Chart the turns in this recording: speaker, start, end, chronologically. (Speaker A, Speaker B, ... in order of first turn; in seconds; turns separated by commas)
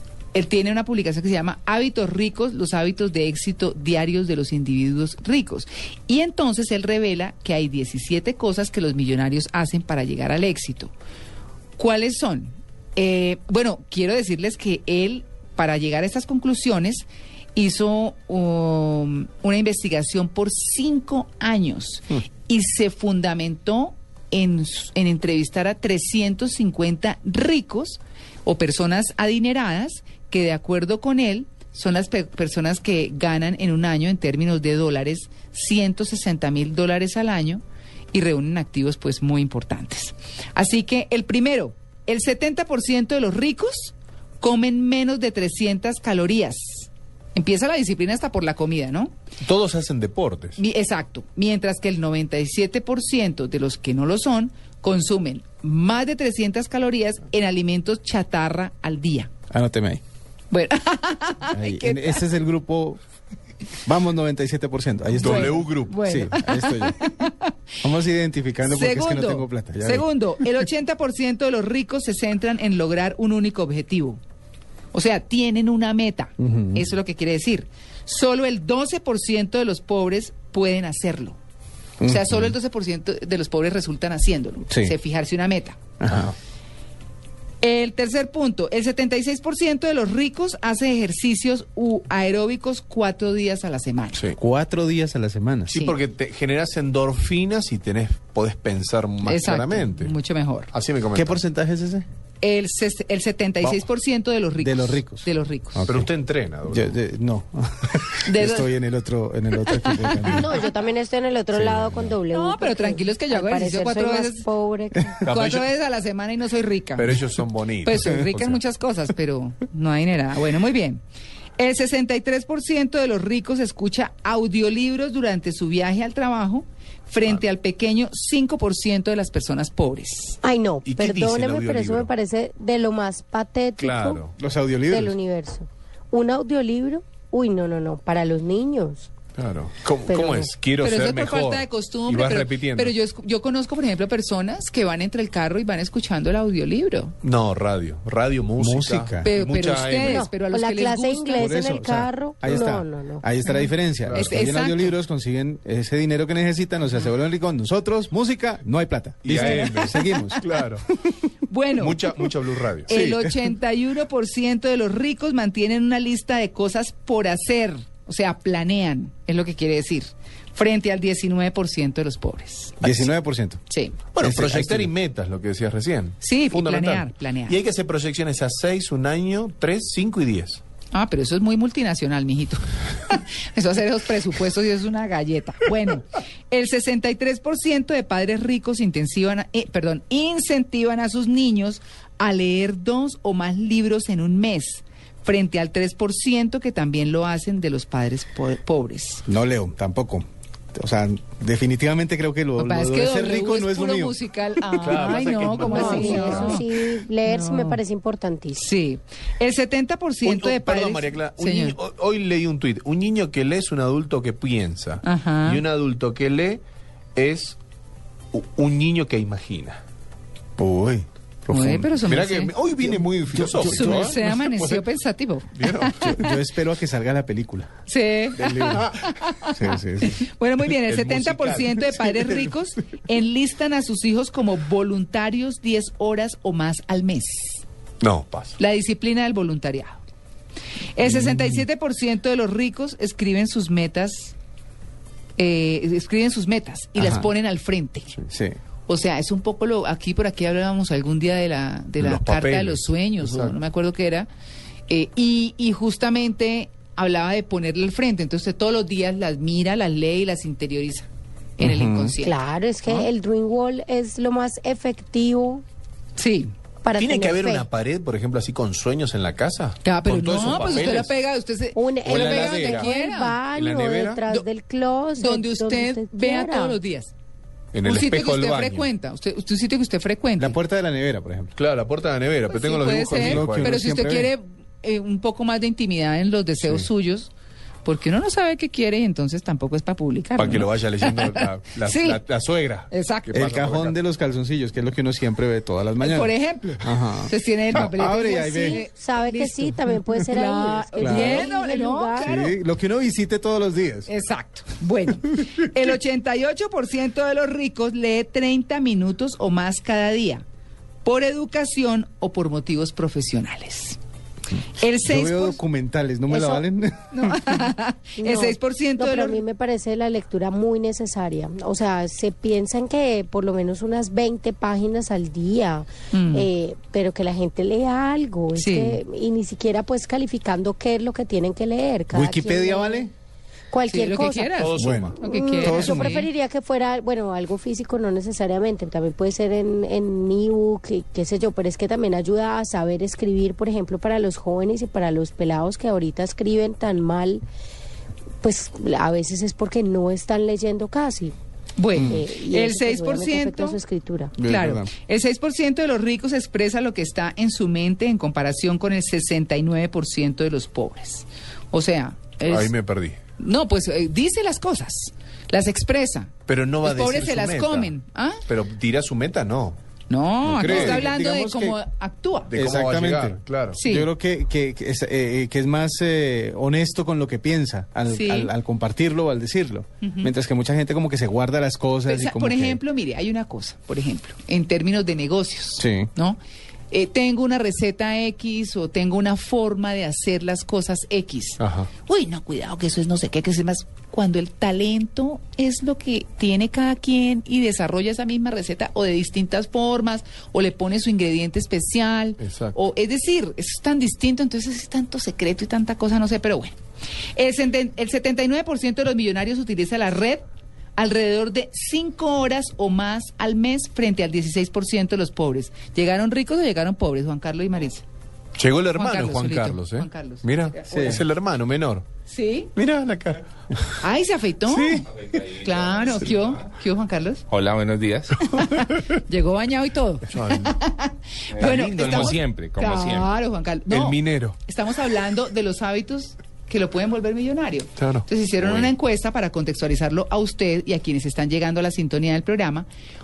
Speaker A: 0.3-10.9, Speaker A: 11.8-37.6, Speaker A: 38.1-49.1, Speaker B: 49.4-50.6, Speaker A: 50.6-59.3, Speaker C: 59.5-60.0, Speaker A: 60.5-62.3, Speaker C: 61.5-63.0, Speaker C: 63.9-67.0, Speaker B: 65.2-66.1, Speaker A: 65.2-67.5, Speaker C: 67.8-70.1, Speaker A: 68.6-74.2, Speaker A: 74.9-81.4, Speaker C: 76.4-76.8, Speaker C: 82.0-82.5, Speaker A: 82.0-85.8, Speaker C: 84.7-85.0, Speaker C: 86.0-86.3, Speaker A: 87.6-94.2, Speaker C: 94.4-95.7, Speaker B: 95.7-100.2, Speaker A: 95.7-96.0, Speaker A: 99.2-100.7, Speaker B: 100.7-101.4, Speaker C: 101.2-102.0, Speaker A: 102.4-105.8, Speaker C: 104.6-106.1, Speaker B: 105.9-107.0, Speaker C: 106.7-110.6, Speaker A: 108.2-108.7, Speaker D: 110.2-115.3, Speaker C: 111.5-112.2, Speaker A: 112.3-114.5, Speaker B: 115.2-115.7, Speaker A: 115.3-117.2, Speaker B: 117.0-118.1, Speaker A: 117.8-121.0, Speaker A: 121.6-130.4, Speaker D: 130.4-134.2, Speaker B: 130.8-132.1, Speaker B: 133.8-134.3, Speaker C: 134.4-135.2, Speaker D: 134.9-139.1, Speaker B: 139.4-143.0, Speaker D: 140.1-140.5, Speaker A: 140.8-147.2, Speaker B: 147.2-150.3, Speaker C: 148.6-149.3, Speaker A: 149.2-151.6, Speaker D: 150.0-153.3, Speaker C: 151.4-160.4, Speaker A: 153.5-155.0, Speaker B: 154.1-154.5, Speaker B: 159.2-160.8, Speaker A: 159.3-160.2, Speaker A: 161.5-162.2, Speaker B: 161.8-163.0, Speaker A: 162.9-172.8, Speaker C: 162.9-163.3, Speaker B: 172.8-173.1, Speaker C: 172.8-173.6, Speaker A: 173.7-174.0, Speaker B: 174.2-180.6, Speaker C: 174.2-174.9, Speaker A: 176.2-177.6, Speaker A: 180.9-199.2, Speaker C: 199.3-204.2, Speaker A: 202.6-206.7, Speaker B: 204.8-206.6, Speaker D: 205.6-208.7, Speaker A: 207.2-207.8, Speaker A: 208.6-211.8, Speaker B: 210.2-216.6, Speaker A: 215.0-215.6, Speaker B: 217.2-217.6, Speaker B: 218.3-219.8, Speaker C: 220.6-221.9, Speaker A: 221.5-222.5, Speaker B: 222.1-224.8, Speaker A: 223.4-226.3, Speaker C: 223.4-224.2, Speaker B: 225.6-226.3, Speaker C: 226.0-227.7, Speaker A: 227.9-237.6, Speaker B: 228.4-229.2, Speaker C: 229.5-230.2, Speaker B: 230.8-232.5, Speaker B: 238.0-238.6, Speaker A: 238.6-240.0, Speaker A: 240.9-244.3, Speaker C: 241.1-241.4, Speaker A: 245.4-248.1, Speaker C: 247.0-247.3, Speaker C: 248.3-248.6, Speaker A: 248.9-254.3, Speaker B: 252.0-253.6, Speaker A: 254.9-261.1, Speaker A: 261.6-263.1, Speaker C: 261.6-262.1, Speaker D: 262.2-265.6, Speaker A: 266.2-266.5, Speaker D: 266.8-267.7, Speaker B: 267.0-271.1, Speaker A: 269.8-273.4, Speaker D: 270.5-270.8, Speaker D: 271.8-276.8, Speaker B: 272.0-272.9, Speaker B: 273.5-274.5, Speaker A: 275.2-277.1, Speaker B: 277.7-278.9, Speaker A: 277.8-280.6, Speaker C: 280.4-281.5, Speaker B: 281.6-283.8, Speaker A: 282.5-287.3, Speaker C: 283.1-284.3, Speaker A: 287.9-292.2, Speaker B: 290.4-294.0, Speaker A: 292.9-293.4, Speaker C: 293.3-298.8, Speaker A: 296.0-302.6, Speaker D: 298.2-302.4, Speaker C: 301.0-301.5, Speaker C: 302.2-304.1, Speaker A: 304.1-310.4, Speaker A: 311.0-314.0, Speaker A: 314.8-315.6, Speaker C: 315.0-317.5, Speaker D: 316.3-316.7, Speaker A: 317.1-319.4, Speaker D: 318.2-333.1, Speaker A: 326.1-326.5, Speaker A: 328.6-329.0, Speaker C: 332.1-333.1, Speaker D: 333.7-334.5, Speaker A: 333.9-336.3, Speaker B: 334.6-335.2, Speaker C: 334.8-336.2, Speaker D: 335.2-347.4, Speaker D: 348.4-351.4, Speaker A: 351.8-353.8, Speaker D: 351.9-354.3, Speaker C: 354.4-354.9, Speaker A: 354.4-362.8, Speaker B: 362.4-363.2, Speaker A: 363.4-368.4, Speaker B: 366.5-367.9, Speaker B: 368.5-369.8, Speaker A: 370.1-372.5, Speaker C: 370.4-371.8, Speaker B: 370.5-371.1, Speaker B: 372.5-373.8, Speaker C: 372.5-382.8, Speaker A: 373.7-374.1, Speaker A: 378.1-378.5, Speaker A: 380.0-380.3, Speaker A: 382.1-386.4, Speaker C: 385.8-386.1, Speaker A: 386.9-406.8, Speaker B: 391.6-391.9, Speaker B: 402.4-402.8, Speaker A: 407.4-410.4, Speaker A: 411.0-418.1, Speaker B: 418.6-422.1, Speaker A: 418.9-421.2, Speaker C: 420.9-421.2, Speaker A: 422.3-422.7, Speaker B: 422.8-423.9, Speaker A: 424.0-427.4, Speaker B: 424.7-425.1, Speaker E: 427.5-428.4, Speaker B: 428.4-428.9, Speaker A: 428.4-442.9, Speaker B: 430.3-430.7, Speaker E: 431.5-433.3, Speaker B: 431.6-432.5, Speaker B: 433.9-434.6, Speaker B: 438.0-438.9